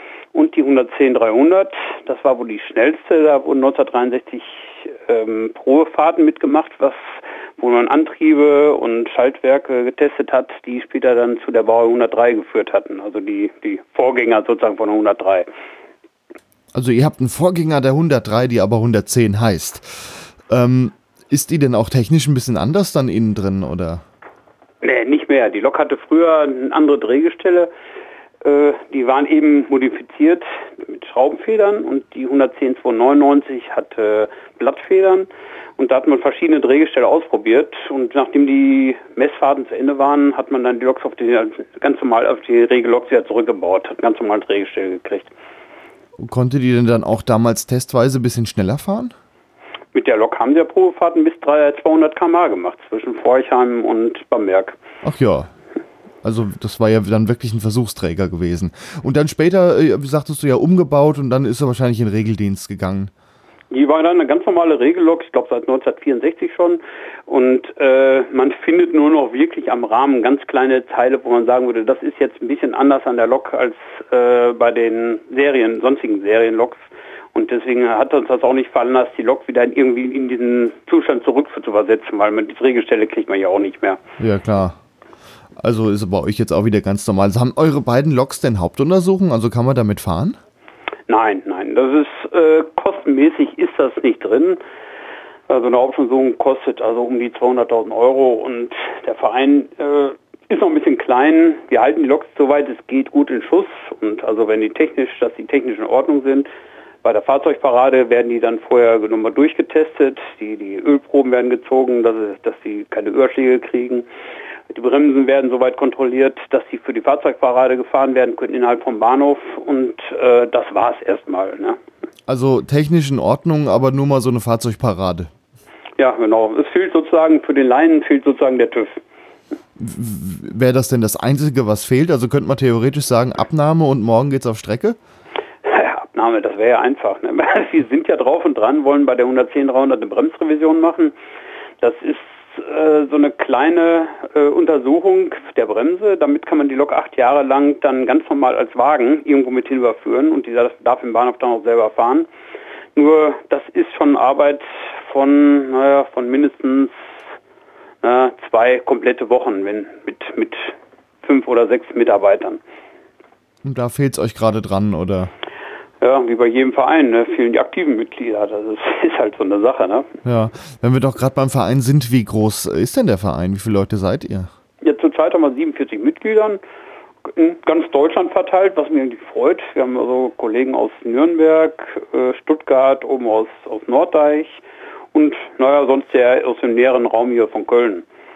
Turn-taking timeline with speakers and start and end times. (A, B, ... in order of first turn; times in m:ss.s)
0:00.3-0:15.4 A
0:16.7-0:24.0 B
0:24.8-0:27.7 A
0:28.4-0:45.3 A
0:46.2-0:49.1 B
0:49.9-0:54.8 A
0:55.0-0:55.5 B
0:56.2-1:03.1 B
1:03.7-1:24.0 A
1:24.2-1:24.8 B
1:25.6-1:30.4 B
1:31.1-1:34.6 A
1:35.5-1:46.5 A
1:47.0-1:54.0 A
1:54.7-2:01.8 A
2:02.3-2:05.3 B
2:06.0-2:09.0 A
2:09.8-2:15.0 B
2:15.6-2:21.1 A
2:21.8-2:32.3 A
2:33.0-2:37.0 A
2:38.0-2:42.6 A
2:43.6-2:45.3 B
2:46.0-2:50.1 A
2:50.2-2:54.5 B
2:54.8-2:56.6 A
2:57.2-3:04.6 A
3:05.1-3:08.0 A